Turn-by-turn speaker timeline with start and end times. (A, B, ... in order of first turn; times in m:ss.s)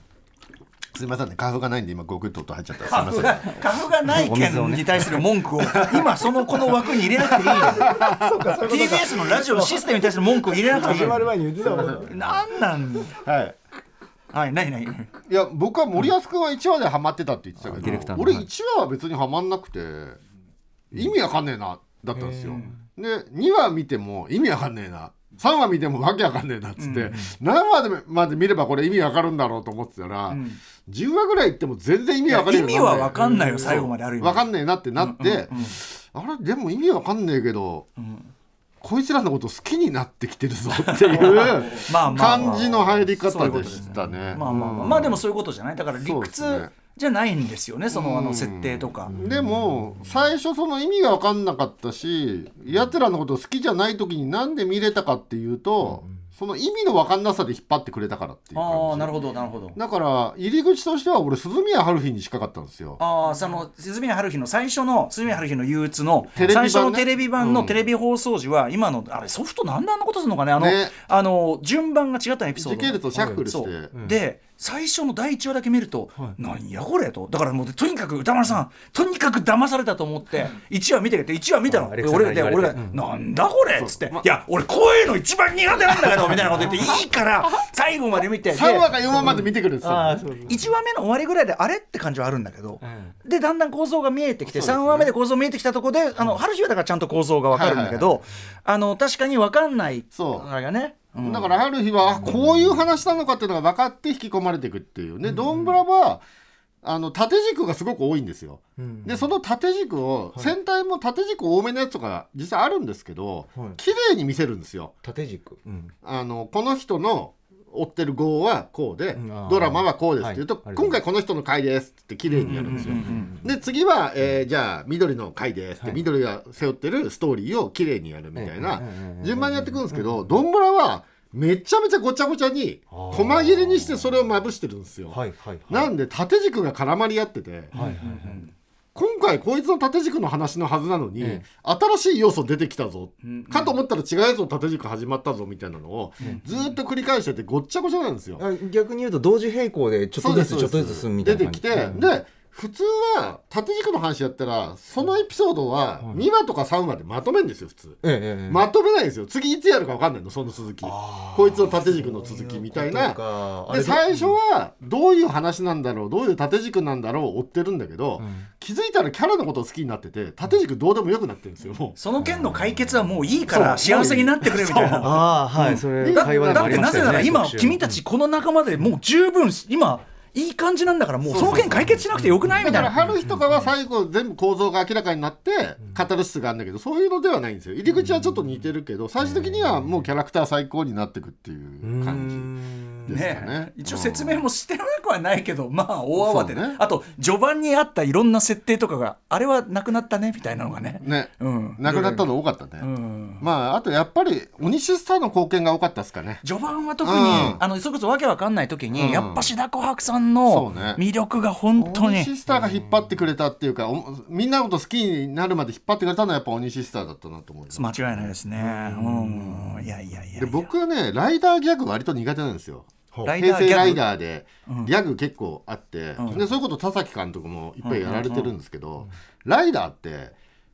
0:00.9-0:03.6 A
0:02.9-0:08.0 B
0:03.0-0:03.4 C
0:04.0-0:05.2 C
0:05.8-0:06.2 A
0:07.2-0:08.6 A
0:07.4-0:12.2 C
0:08.6-0:11.3 B
0:11.6-0:12.4 A
0:11.9-0:13.2 B
0:13.1-0:13.6 A
0:14.3-0:15.1 B
0:15.3-0:20.2 A
0:17.6-0:18.5 C
0:20.9-0:37.9 A
0:22.1-0:22.8 C
0:26.8-0:27.1 B
0:30.3-0:30.6 B
0:32.3-0:34.4 B
0:35.0-0:35.7 B
0:38.0-0:38.3 B
0:38.8-0:45.2 A
0:40.8-0:49.1 B
0:42.3-0:42.6 C
0:44.0-0:45.1 C
0:46.0-0:46.7 A
0:47.9-0:59.2 A
0:49.1-0:50.0 C
0:55.8-0:56.2 C
0:58.6-0:59.8 B
0:59.8-1:03.0 A
1:03.0-1:28.9 B
1:06.4-1:07.9 A
1:10.6-1:10.9 A
1:12.6-1:13.9 A
1:13.1-1:14.2 C
1:21.7-1:23.0 C
1:23.8-1:24.2 A
1:28.5-1:30.3 A
1:29.0-1:30.7 C
1:30.5-1:41.6 B
1:32.8-1:33.2 C
1:34.4-1:35.1 A
1:37.5-1:38.2 A
1:40.1-1:40.5 A
1:41.2-1:46.2 A
1:45.2-1:45.8 C
1:46.8-1:55.0 A
1:48.8-1:49.3 C
1:53.6-1:53.8 C
1:55.0-1:55.9 C
1:56.0-2:17.7 A
1:59.2-2:01.0 C
2:02.3-2:03.6 C
2:02.4-2:03.3 B
2:08.4-2:10.4 C
2:12.9-2:14.3 C
2:15.1-2:15.9 C
2:17.7-2:18.5 C
2:17.7-2:18.5 B
2:19.0-2:28.4 A
2:21.2-2:21.4 C
2:23.2-2:23.8 B
2:26.2-2:26.5 B
2:28.4-2:32.1 C
2:30.2-2:52.0 A
2:38.0-2:38.7 C
2:40.8-2:44.4 C
2:48.2-2:48.5 C
2:52.0-3:02.9 B
2:52.2-2:53.0 C
2:53.5-2:55.2 A
2:55.0-2:58.0 C
2:56.0-2:57.4 A
3:01.3-3:14.4 A
3:02.2-3:03.6 C
3:08.0-3:08.3 C
3:09.3-3:09.8 C
3:11.8-3:13.2 C
3:13.1-3:22.3 B
3:16.2-3:16.8 A
3:21.0-3:22.9 A
3:22.8-3:23.4 B
3:23.4-3:26.4 A
3:26.4-3:32.3 B
3:27.0-3:27.6 A
3:28.9-3:29.5 A
3:30.5-3:31.0 A
3:31.8-3:39.8 A
3:37.7-3:40.7 B
3:40.4-3:50.3 A
3:43.2-3:44.0 B
3:44.7-3:44.9 B
3:47.8-3:48.5 B